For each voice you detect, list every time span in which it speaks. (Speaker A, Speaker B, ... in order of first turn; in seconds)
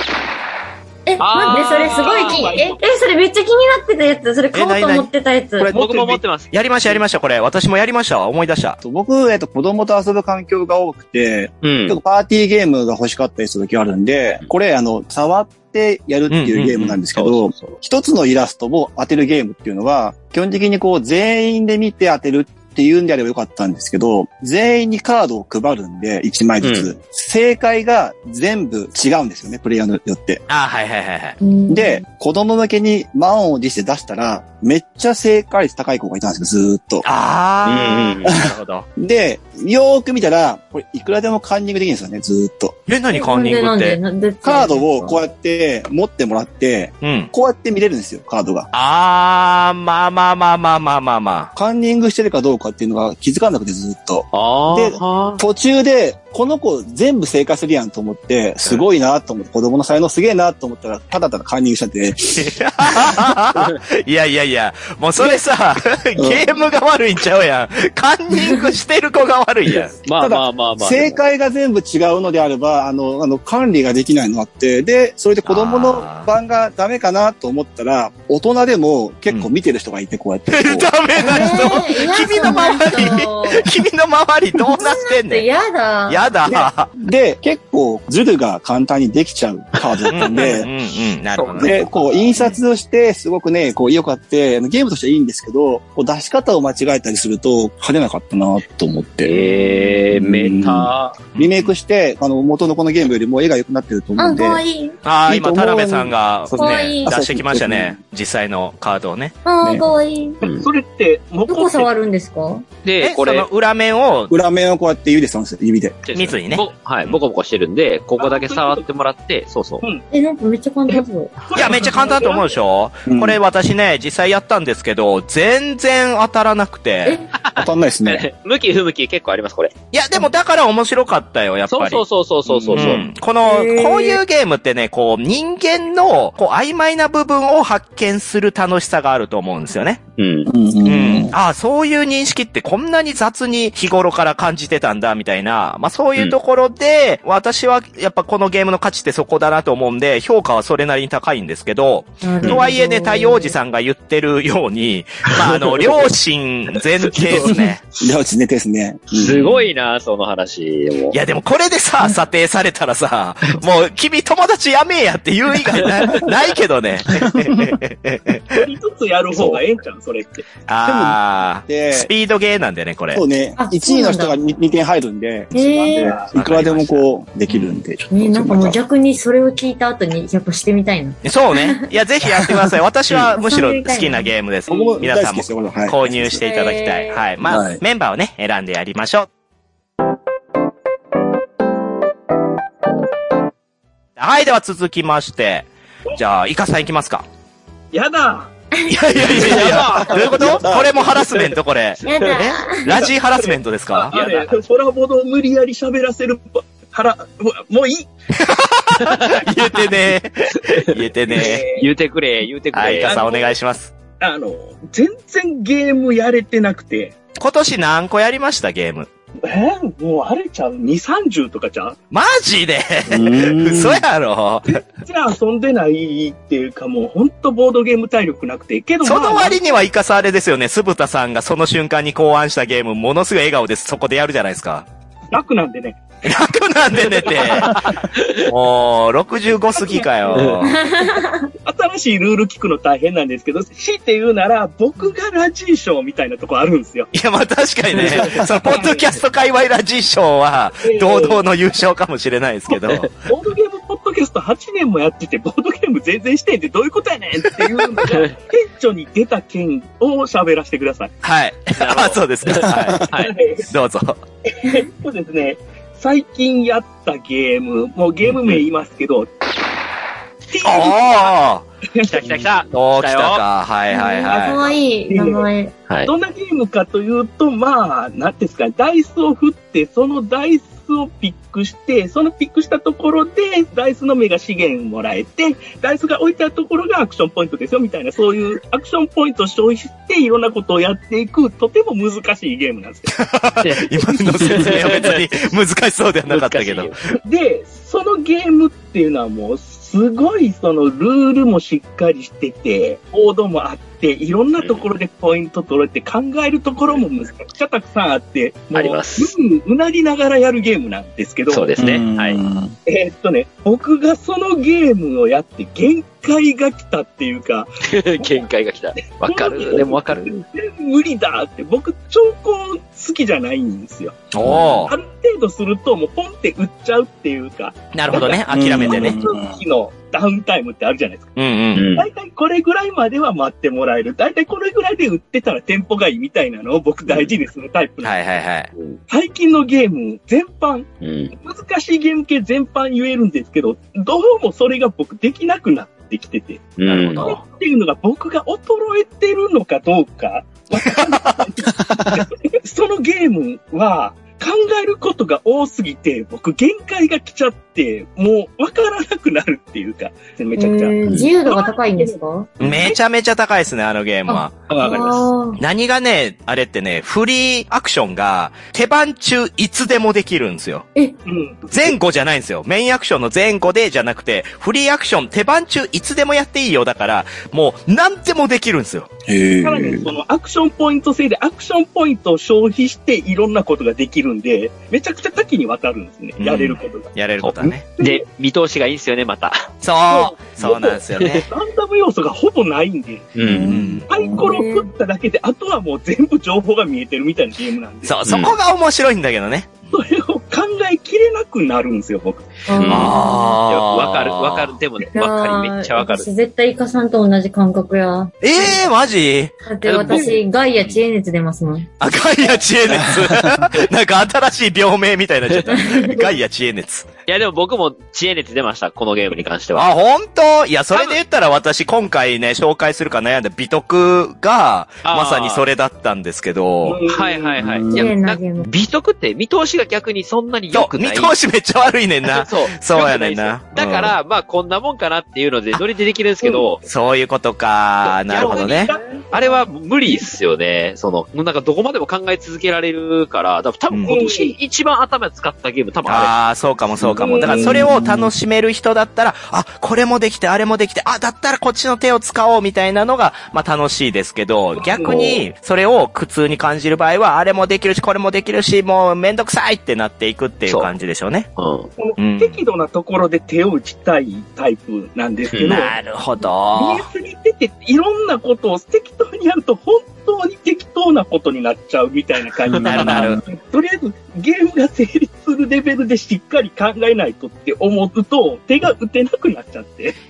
Speaker A: 1.1-5.7, 31.4-32.0, 43.1-45.2, 81.2-83.7, 84.7-86.3, 99.4-100.0, 104.2-105.0, 106.5-107.1, 109.4-110.4, 111.5-112.6, 120.1-122.0, 133.4-134.2, 152.2-153.5, 173.6-174.4, 175.5-176.2, 178.1-181.8, 183.3-184.9, 186.4-187.2, 202.0-202.9, 240.6-241.5, 273.9-275.7, 360.6-362.5, 364.3-365.6, 394.3-394.9, 402.7-403.6, 405.1-408.7, 409.6-411.9, 415.7-416.2, 427.9-428.7
Speaker B: 1.2-2.5, 5.7-7.0, 11.6-12.0, 16.8-17.8, 26.6-26.9, 37.6-38.4, 54.3-55.4, 69.7-71.2, 89.8-90.6, 91.3-91.8, 99.2-101.2, 110.4-110.7, 112.8-113.5, 116.0-119.8, 127.4-129.7, 131.7-133.0, 140.2-140.5, 155.5-156.1, 157.1-157.6, 159.1-161.2, 199.3-200.6, 204.1-204.6, 209.0-209.9, 210.6-213.2, 238.1-238.5, 240.3-240.6, 252.7-253.0, 258.1-258.3, 261.8-263.4, 268.3-268.6, 272.0-273.4, 293.6-295.4, 296.3-297.1, 308.7-309.3, 311.5-312.4, 317.9-320.4, 324.4-324.9, 331.7-332.1, 341.0-341.3, 346.8-347.4, 387.4-389.7, 393.4-393.8, 398.3-398.6, 402.8-406.3, 409.8-410.4, 417.3-419.9, 420.9-421.2, 425.0-425.6, 427.1-431.3, 432.2-436.8, 439.3-446.3, 461.6-461.9
Speaker C: 1.4-2.9, 110.4-111.9, 118.2-118.8, 120.9-122.6, 168.5-170.5, 175.9-176.3, 184.7-185.0, 197.9-198.5, 199.3-200.1, 202.7-208.1, 211.3-211.9, 213.0-213.5, 214.2-217.2, 219.4-222.0, 224.7-229.8, 235.3-236.0, 237.0-237.7, 239.7-240.6, 241.6-247.1, 248.1-249.1, 250.8-251.4, 253.1-261.1, 263.1-263.7, 264.5-269.3, 270.5-271.3, 271.9-272.2, 274.3-275.5, 276.0-293.1, 297.2-311.7, 312.9-318.5, 319.1-331.3, 331.9-338.1, 339.1-363.0, 364.7-365.3, 371.2-371.9, 379.6-387.1, 388.0-388.2, 390.1-393.4, 394.1-398.2, 399.9-402.6, 410.1-410.4, 426.8-427.8, 436.4-436.7, 438.2-439.6, 444.1-444.5, 447.2-447.9, 454.7-455.4, 462.0-465.9, 466.7-480.1
Speaker D: 4.5-5.1, 6.5-8.8, 16.3-16.9, 30.5-31.4, 37.0-38.9, 42.9-44.0, 47.0-47.3, 48.7-51.5, 62.3-70.0, 75.4-76.3, 80.5-85.4, 86.1-86.9, 90.1-91.8, 101.3-101.7, 105.0-109.3, 113.0-114.3, 116.1-117.2, 121.5-127.2, 129.9-132.0, 132.7-140.0, 140.8-157.8, 161.1-168.7, 169.3-169.6, 170.7-173.2, 176.3-177.8, 181.2-189.3, 194.2-197.2, 198.9-204.1, 208.4-211.6, 212.7-213.9, 217.4-219.1, 222.1-224.8, 229.0-234.8, 236.2-237.9, 238.4-240.8, 247.1-253.2, 261.2-264.2, 270.6-271.7, 272.7-274.6, 293.1-296.9, 324.3-324.9, 327.9-329.2, 331.4-331.9, 338.0-338.7, 346.9-347.4, 351.1-351.4, 362.6-364.6, 365.6-370.8, 371.7-379.1, 386.4-387.9, 389.8-391.4, 393.7-394.1, 398.0-399.9, 402.9-404.7, 408.4-409.5, 412.0-417.1, 419.8-427.0, 430.7-434.1, 436.8-438.9, 446.1-461.5, 462.2-462.6, 465.6-467.1, 472.8-473.4
Speaker E: 5.6-6.2, 8.8-30.4, 31.7-37.0, 39.0-42.7, 44.4-48.7, 51.5-62.5, 66.2-66.4, 70.1-81.5, 82.1-83.1, 86.5-90.7, 91.6-99.3, 100.1-104.6, 105.3-107.9, 114.3-116.0, 123.1-123.4, 127.5-128.2, 132.4-133.1, 140.5-141.3, 158.0-159.4, 167.1-167.8, 170.8-172.1, 173.1-178.8, 184.7-186.4, 187.4-187.8, 199.4-201.2, 223.1-224.0, 311.8-312.7, 328.5-329.6, 351.9-352.2, 379.3-380.1, 393.5-394.5, 412.9-413.6, 427.6-428.1, 447.0-448.3, 472.7-473.4